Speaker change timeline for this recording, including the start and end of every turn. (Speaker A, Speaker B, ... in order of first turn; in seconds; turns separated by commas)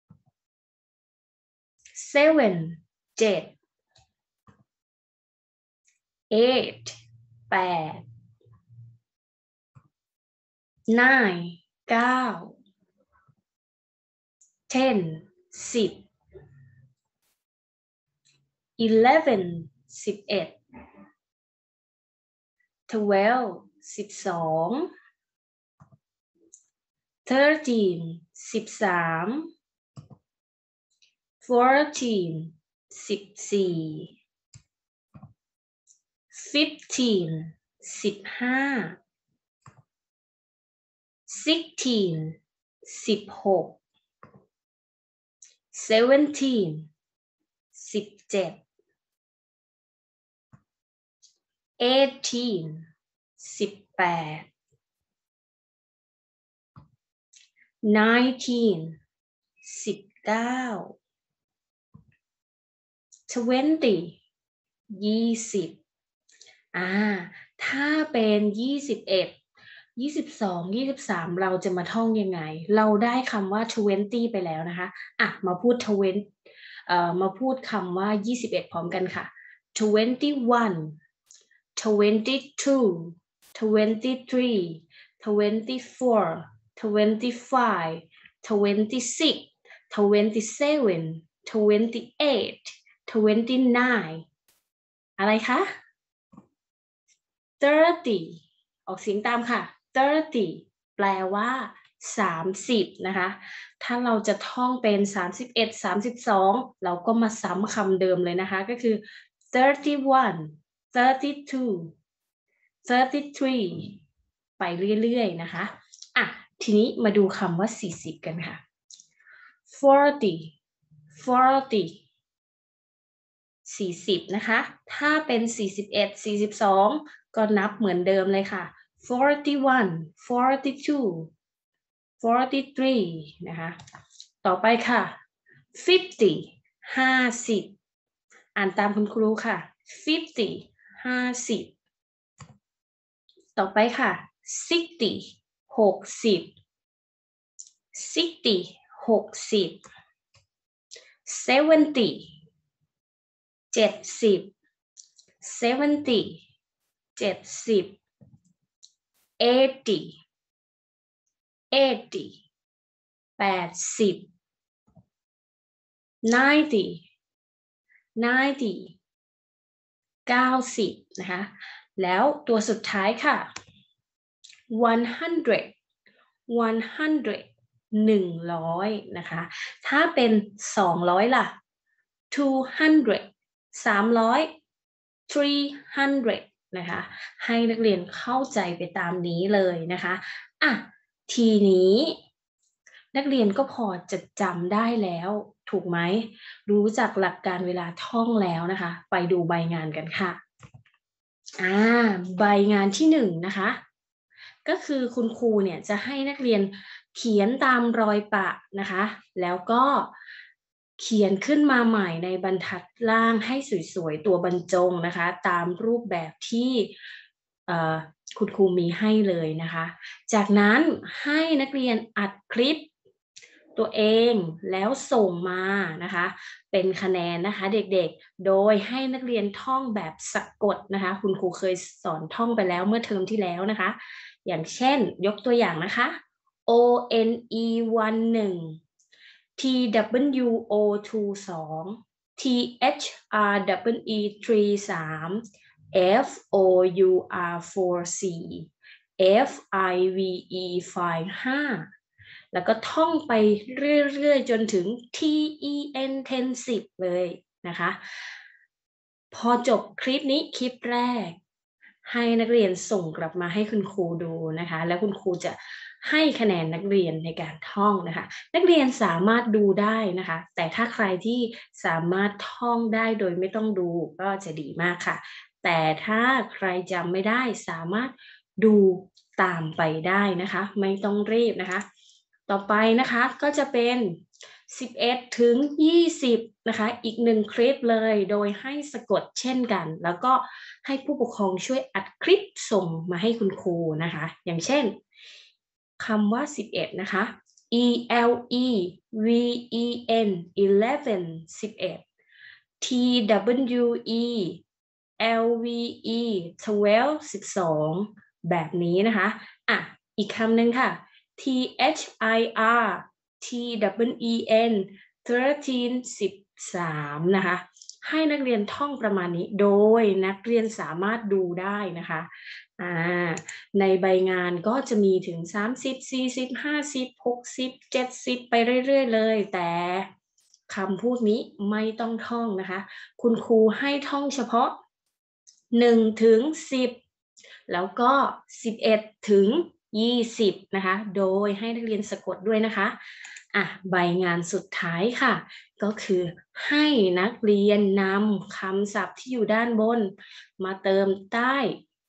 Speaker A: 1.9-3.5, Speaker A: 6.3-7.0, Speaker A: 7.5-8.0, Speaker A: 10.9-12.6, Speaker A: 14.7-16.1, Speaker A: 18.8-20.6, Speaker A: 22.9-24.9, Speaker A: 27.2-29.5, Speaker A: 31.4-34.2, Speaker A: 36.3-39.0, Speaker A: 41.2-43.8, Speaker A: 45.7-46.9, Speaker A: 47.7-48.6, Speaker A: 51.8-52.8, Speaker A: 53.4-54.5, Speaker A: 57.8-59.0, Speaker A: 59.6-61.0, Speaker A: 63.3-64.2, Speaker A: 64.9-65.8, Speaker A: 66.7-69.3, Speaker A: 70.0-76.3, Speaker A: 76.9-81.0, Speaker A: 81.8-94.2, Speaker A: 95.2-95.7, Speaker A: 97.6-109.0, Speaker A: 109.5-111.9, Speaker A: 112.8-114.0, Speaker A: 114.6-118.6, Speaker A: 119.7-120.5, Speaker A: 121.1-122.0, Speaker A: 123.7-131.3, Speaker A: 132.2-133.8, Speaker A: 134.4-135.1, Speaker A: 135.7-137.7, Speaker A: 138.6-141.7, Speaker A: 143.6-146.5, Speaker A: 147.9-149.8, Speaker A: 151.2-152.3, Speaker A: 153.7-154.5, Speaker A: 155.4-156.4, Speaker A: 157.2-158.0, Speaker A: 159.4-160.2, Speaker A: 161.7-162.4, Speaker A: 163.4-164.3, Speaker A: 166.2-167.0, Speaker A: 168.2-168.9, Speaker A: 170.3-173.4, Speaker A: 174.7-175.7, Speaker A: 176.5-181.5, Speaker A: 182.3-184.5, Speaker A: 185.3-192.2, Speaker A: 193.1-200.4, Speaker A: 201.6-203.8, Speaker A: 204.6-210.1, Speaker A: 211.0-216.9, Speaker A: 217.7-222.9, Speaker A: 223.7-236.1, Speaker A: 236.7-238.8, Speaker A: 239.6-245.4, Speaker A: 245.9-251.8, Speaker A: 252.5-258.0, Speaker A: 259.3-261.4, Speaker A: 262.1-281.8, Speaker A: 282.5-295.0, Speaker A: 296.0-302.0, Speaker A: 302.8-304.6, Speaker A: 305.2-330.1, Speaker A: 330.7-334.7, Speaker A: 335.7-337.0, Speaker A: 337.7-342.9, Speaker A: 343.5-351.8